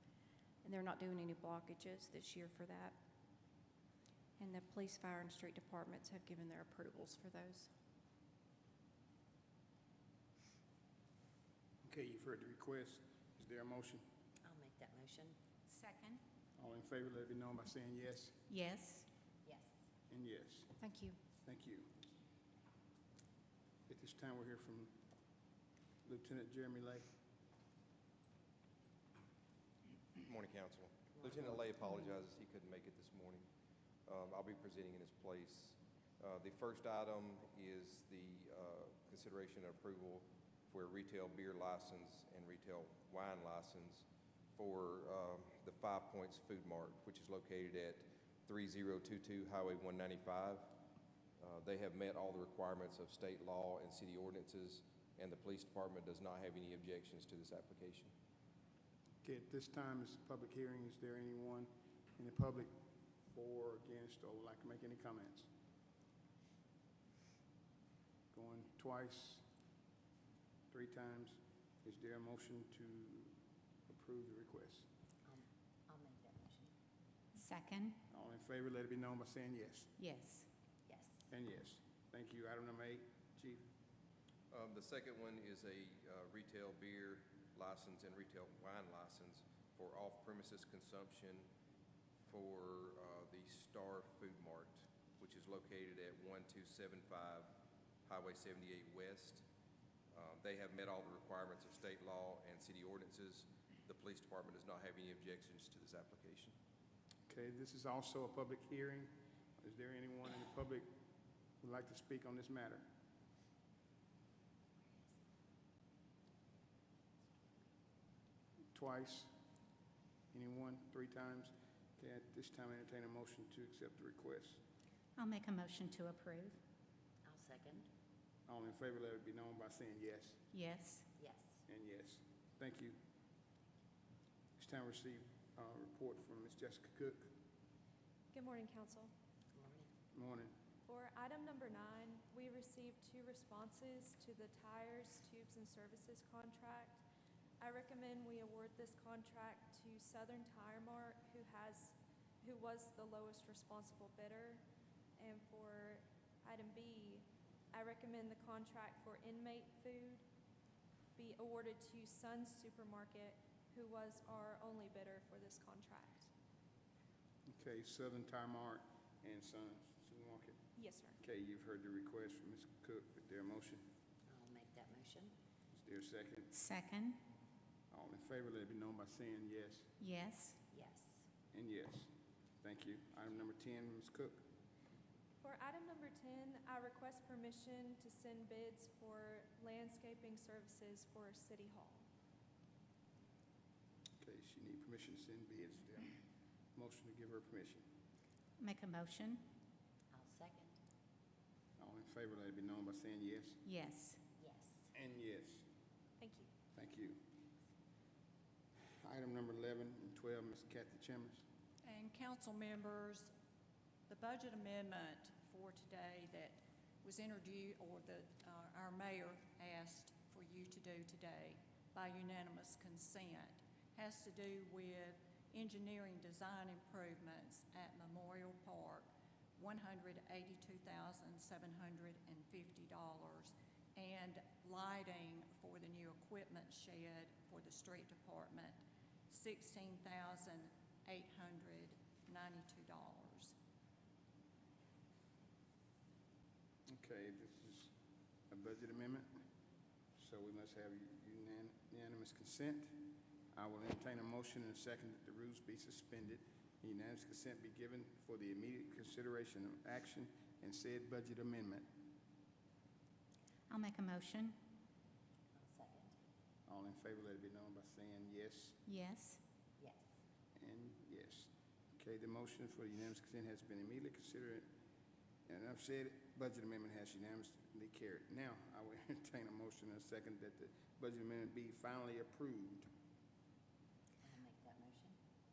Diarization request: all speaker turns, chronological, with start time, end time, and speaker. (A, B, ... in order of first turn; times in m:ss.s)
0:00.6-0:03.0 A
0:04.4-0:07.7 A
0:11.8-0:14.0 B
0:14.4-0:15.4 C
0:15.7-0:16.2 D
0:16.6-0:18.4 B
0:18.5-0:19.1 D
0:19.4-0:19.7 C
0:20.1-0:20.8 B
0:20.8-0:21.2 A
0:21.4-0:21.9 B
0:23.9-0:25.0 B
0:26.0-0:27.1 B
0:30.2-0:33.5 E
0:34.1-0:50.8 E
0:51.4-0:58.1 E
0:59.2-1:02.7 B
1:03.3-1:05.5 B
1:08.3-1:09.4 B
1:10.7-1:13.4 B
1:13.9-1:14.9 B
1:15.2-1:16.7 C
1:17.4-1:18.0 D
1:18.1-1:19.9 B
1:20.0-1:20.5 D
1:20.9-1:21.2 C
1:21.3-1:23.6 B
1:24.5-1:31.5 E
1:32.2-1:37.5 E
1:38.0-1:39.4 E
1:40.1-1:46.6 E
1:47.3-1:50.9 B
1:51.6-1:52.9 B
1:58.7-1:59.3 B
2:00.3-2:04.6 B
2:05.2-2:06.6 D
2:07.2-2:07.9 C
2:08.5-2:10.4 B
2:10.5-2:11.1 D
2:11.2-2:11.6 C
2:11.7-2:13.0 B
2:14.6-2:17.4 B
2:18.3-2:19.1 F
2:19.5-2:19.9 C
2:20.1-2:20.5 B
2:20.9-2:27.0 F
2:27.6-2:34.6 F
2:35.2-2:40.2 F
2:41.2-2:46.3 F
2:47.5-2:50.6 B
2:50.8-2:51.2 F
2:51.2-2:53.8 B
2:54.3-2:55.3 C
2:55.7-2:56.5 B
2:56.5-2:57.2 D
2:57.9-2:59.9 B
3:00.0-3:00.6 D
3:00.7-3:01.3 C
3:01.5-3:02.1 B
3:02.6-3:04.4 B
3:05.4-3:12.1 F
3:14.2-3:16.1 B
3:16.8-3:17.9 B
3:18.6-3:19.4 D
3:20.1-3:20.8 C
3:21.8-3:23.6 B
3:23.6-3:24.2 D
3:24.4-3:24.9 C
3:24.9-3:25.6 B
3:26.2-3:26.4 F
3:26.7-3:27.2 B
3:29.0-3:31.4 B
3:31.8-3:33.3 G
3:34.1-4:03.6 G
4:06.9-4:07.9 B
4:08.5-4:09.3 B
4:10.2-4:21.9 B
4:23.7-4:24.6 D
4:25.6-4:26.2 C
4:26.7-4:28.8 B
4:28.9-4:29.4 D
4:29.8-4:30.1 C
4:30.6-4:34.7 B
4:35.5-4:42.9 B
4:44.2-4:45.2 C